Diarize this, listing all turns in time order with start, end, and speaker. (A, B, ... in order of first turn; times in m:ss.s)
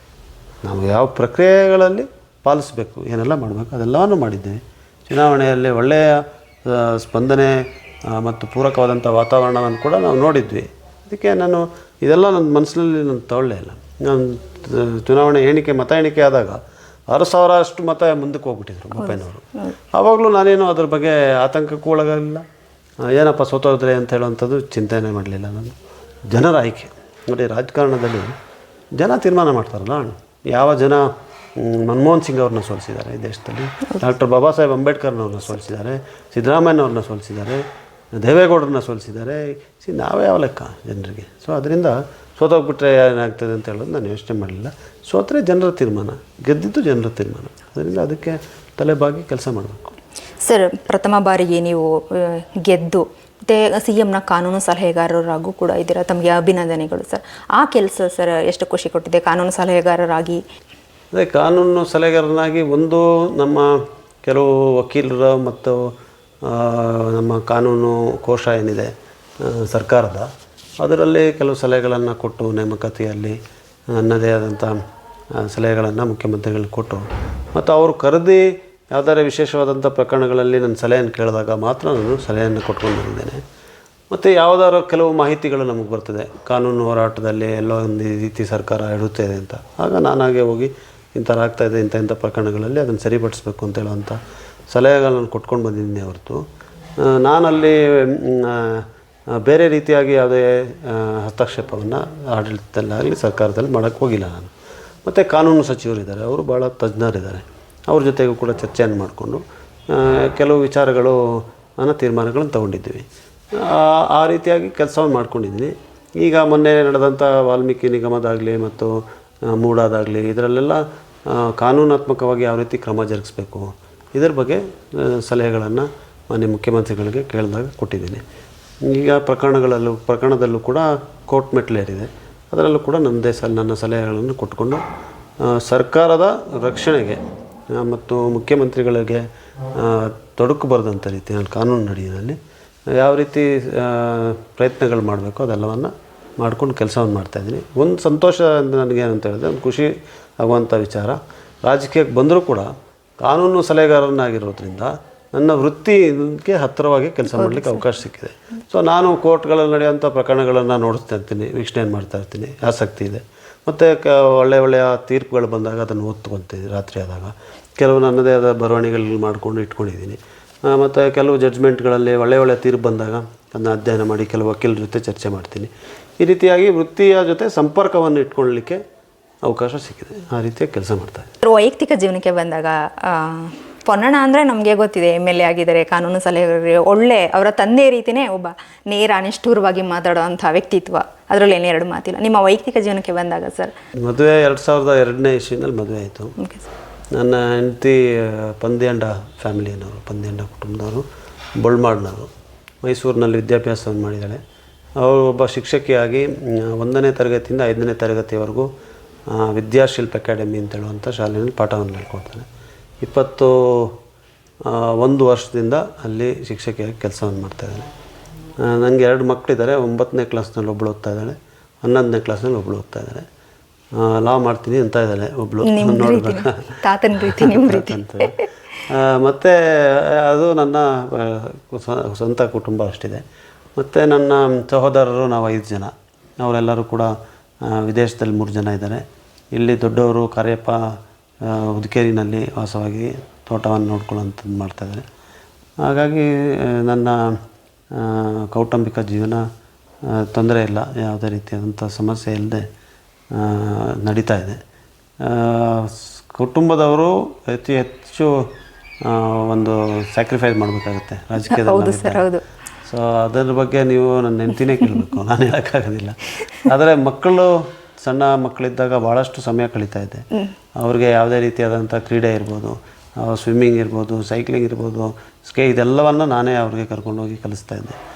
0:00.6-0:22.4 A
0:23.0-0:25.8 A
0:26.3-0:28.4 A
0:29.0-0:37.6 A
0:38.2-0:50.0 A
0:50.4-1:00.4 B
1:01.1-1:05.9 A
1:06.4-1:10.3 A
1:10.8-1:13.4 A
1:13.9-1:14.8 A
1:15.4-1:23.4 A
1:24.1-1:34.2 A
1:34.7-1:36.4 A
1:37.0-1:44.5 A
1:45.0-2:08.2 A
2:08.9-2:14.8 A
2:15.4-2:17.2 A
2:17.7-2:22.4 A
2:23.0-2:58.8 A
2:37.3-2:37.8 B
2:59.4-3:01.3 A
3:01.4-3:13.7 B
3:14.0-3:16.3 A
3:16.4-3:16.7 B
3:17.2-3:21.1 A
3:21.6-3:22.3 A
3:22.8-3:24.4 A
3:25.0-3:28.7 A
3:29.3-3:32.5 A
3:33.0-3:34.0 A
3:34.7-3:37.9 A
3:38.6-3:43.3 A
3:44.0-3:48.3 A
3:45.6-3:48.4 B
3:48.9-3:53.2 A
3:53.8-3:57.1 A
3:57.6-3:59.0 A
3:59.6-4:00.8 A
4:01.4-4:05.0 A
4:05.8-4:07.4 A
4:07.9-4:09.4 A
4:10.1-4:12.7 A
4:13.3-4:14.6 A
4:15.2-4:18.5 A
4:19.0-4:22.2 A
4:21.5-4:22.4 B
4:22.9-4:30.2 A
4:30.8-4:38.0 A